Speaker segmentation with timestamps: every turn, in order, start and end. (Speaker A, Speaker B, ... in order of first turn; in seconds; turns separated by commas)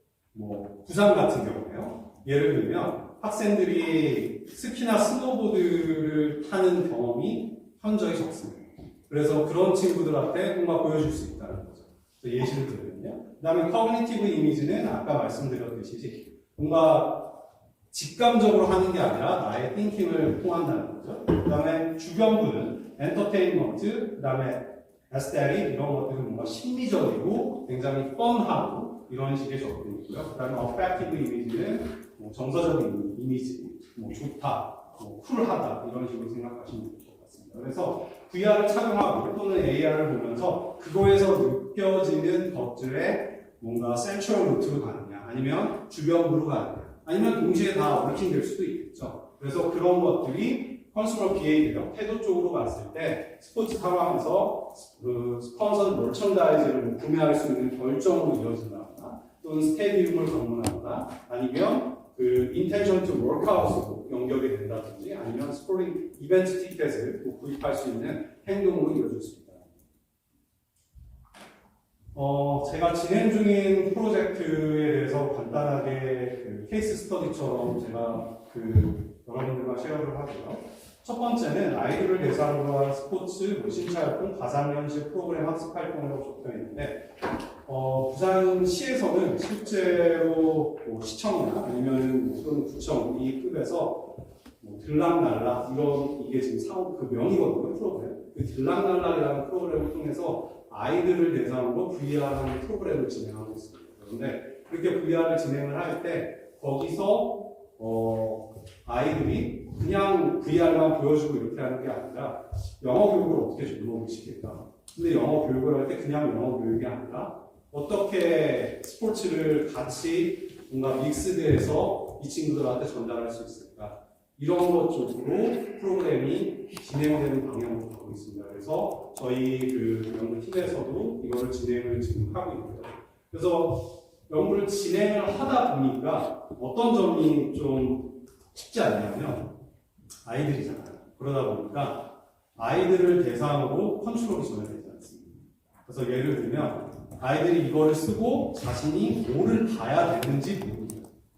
Speaker A: 0.3-69.7, Speaker A: 72.1-87.1, Speaker A: 87.7-139.6, Speaker A: 140.2-151.1